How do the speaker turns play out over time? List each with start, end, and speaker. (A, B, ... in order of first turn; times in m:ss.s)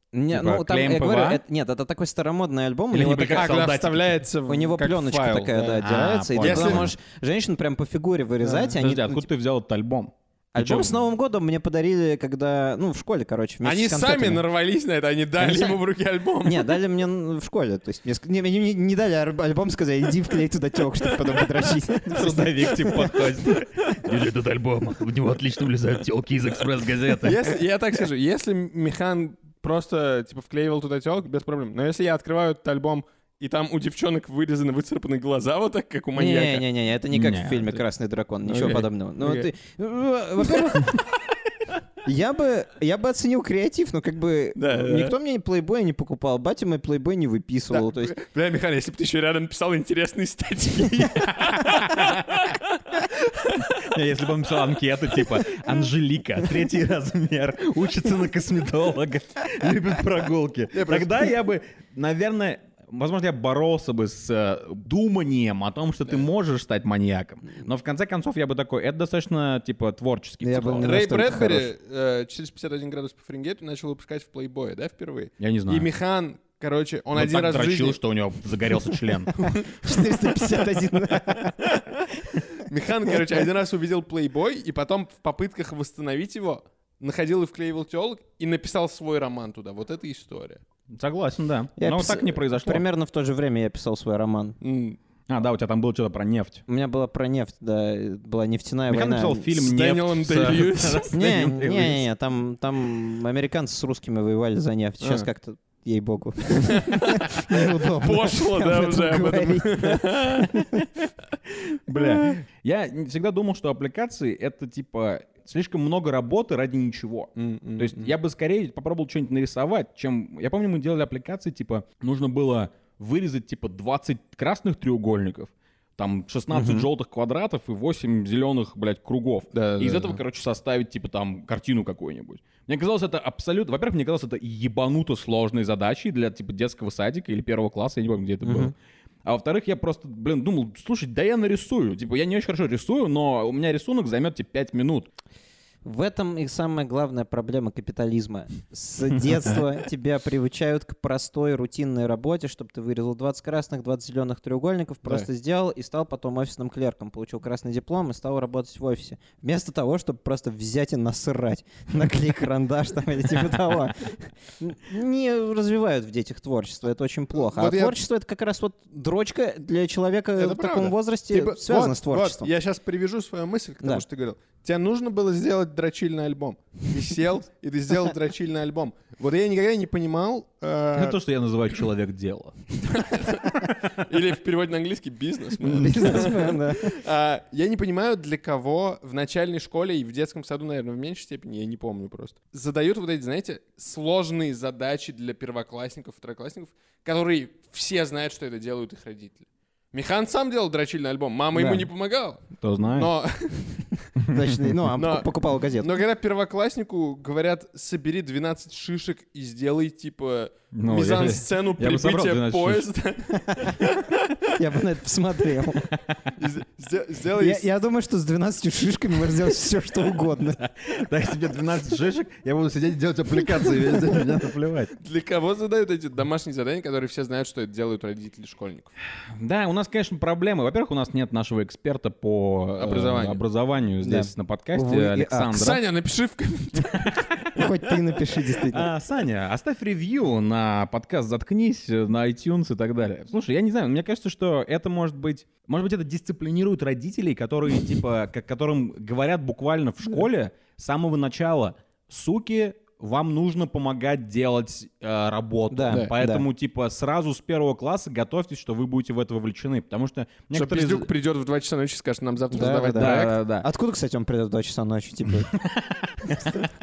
0:00.1-0:03.5 A
0:00.3-0:01.4 B
0:02.9-0:04.2 B
0:03.1-0:05.8 C
0:04.5-0:09.3 A
0:05.8-0:06.9 B
0:06.4-0:06.9 C
0:08.4-0:08.7 C
0:08.8-0:11.0 B
0:10.5-0:14.4 A
0:13.6-0:16.7 C
0:15.4-0:15.8 A
0:16.4-0:23.3 A
0:22.0-0:27.4 B
0:27.2-0:36.6 C
0:36.2-0:41.0 A
0:37.1-0:37.8 B
0:38.4-0:39.5 C
0:42.0-0:48.2 A
0:44.6-0:45.1 C
0:47.7-0:53.8 C
0:53.6-1:11.0 B
1:00.7-1:01.3 C
1:10.4-1:11.7 A
1:10.8-1:18.0 C
1:15.4-1:15.9 B
1:17.1-1:19.4 B
1:19.4-1:20.6 C
1:19.4-1:21.6 A
1:21.4-1:30.6 C
1:30.9-1:32.8 B
1:31.8-1:34.6 A
1:34.6-1:35.0 C
1:35.3-1:36.6 B
1:36.7-1:39.4 A
1:38.9-1:42.1 B
1:39.5-1:41.1 C
1:41.1-1:50.9 A
1:45.0-1:45.3 C
1:46.6-1:50.6 C
1:51.5-2:18.7 B
1:51.9-1:52.3 C
1:57.4-1:58.1 C
2:09.5-2:10.2 C
2:18.4-2:18.7 A
2:19.2-2:25.1 B
2:25.8-2:52.5 A
2:47.4-2:48.0 C
2:50.4-3:01.2 C
3:00.9-3:02.5 B
3:02.8-3:24.1 C
3:05.7-3:06.3 B
3:05.7-3:07.0 A
3:21.5-3:21.9 A
3:22.6-3:23.1 B
3:24.2-3:24.8 B
3:24.3-3:26.0 A
3:24.9-3:34.5 C
3:30.7-3:32.9 B
3:34.5-3:35.9 A
3:36.4-3:37.6 C
3:37.4-3:40.6 A
3:40.6-3:44.9 B
3:45.0-3:48.9 C
3:49.4-3:55.8 B
3:52.8-3:53.4 C
3:54.0-3:55.6 A
3:55.5-3:57.7 C
3:57.0-3:57.5 B
3:57.5-3:58.9 A
3:58.7-4:21.1 B
4:15.7-4:16.4 A
4:20.5-4:23.4 C
4:22.5-4:25.5 A
4:22.9-4:23.7 B
4:25.5-4:26.7 B